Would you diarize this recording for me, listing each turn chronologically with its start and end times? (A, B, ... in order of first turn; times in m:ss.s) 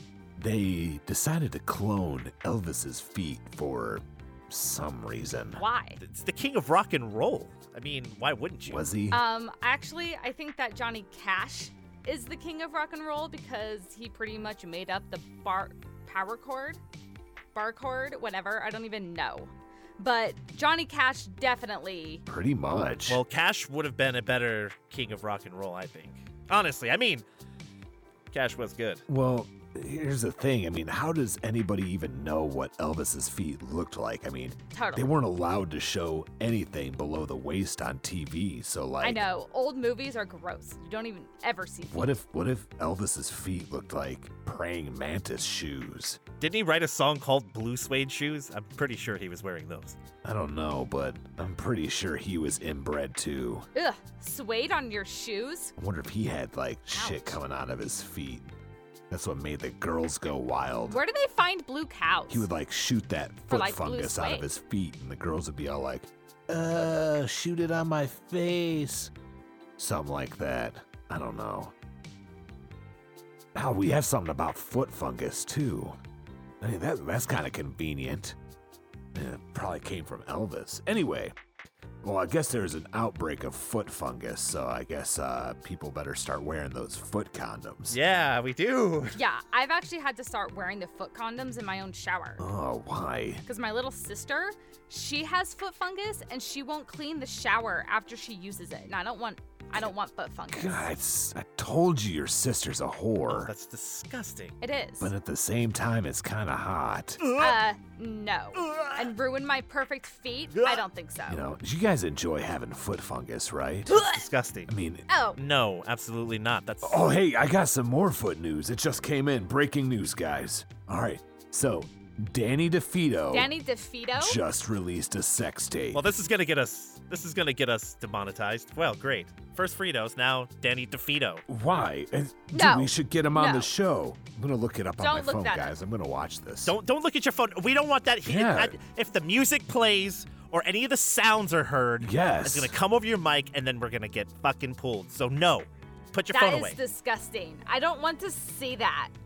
0:00.4-0:05.6 A
0:05.6-0:06.0 B
0:06.0-0:08.9 C
0:08.7-0:09.2 A
0:09.1-0:16.8 B
0:17.5-0:22.2 B
0:22.3-0:23.2 A
0:23.1-0:27.2 C
0:28.3-0:29.0 C
0:29.1-0:39.2 A
0:34.7-0:35.2 B
0:39.0-0:42.2 B
0:41.9-0:46.2 A
0:46.4-0:50.0 C
0:50.2-0:53.7 A
0:53.8-0:55.7 B
0:55.8-0:58.5 A
0:56.9-0:57.4 B
0:59.1-1:01.0 A
1:00.9-1:02.5 B
1:02.3-1:09.1 A
1:03.5-1:04.5 B
1:09.8-1:11.7 A
1:13.6-1:16.0 A
1:16.6-1:18.4 A
1:19.1-1:21.4 A
1:22.0-1:28.0 A
1:27.9-1:29.2 C
1:29.1-1:32.4 B
1:32.4-1:33.4 A
1:33.5-1:40.9 B
1:40.5-1:43.5 A
1:43.3-1:44.6 C
1:44.6-1:45.1 B
1:45.0-1:47.2 A
1:47.2-1:47.6 C
1:47.4-1:51.5 B
1:48.6-1:49.1 C
1:50.5-1:50.8 C
1:51.3-1:54.0 A
1:53.9-1:54.7 C
1:53.9-1:54.2 B
1:54.7-1:55.1 A
1:55.1-1:55.4 B
1:55.4-1:57.1 C
1:56.8-2:03.5 A
2:03.3-2:04.4 B
2:04.2-2:06.1 A
2:05.9-2:11.4 C
2:11.5-2:16.8 A
2:12.5-2:13.7 B
2:15.0-2:15.7 B
2:16.6-2:26.8 C
2:18.2-2:18.8 A
2:22.0-2:22.7 A
2:26.3-2:29.1 B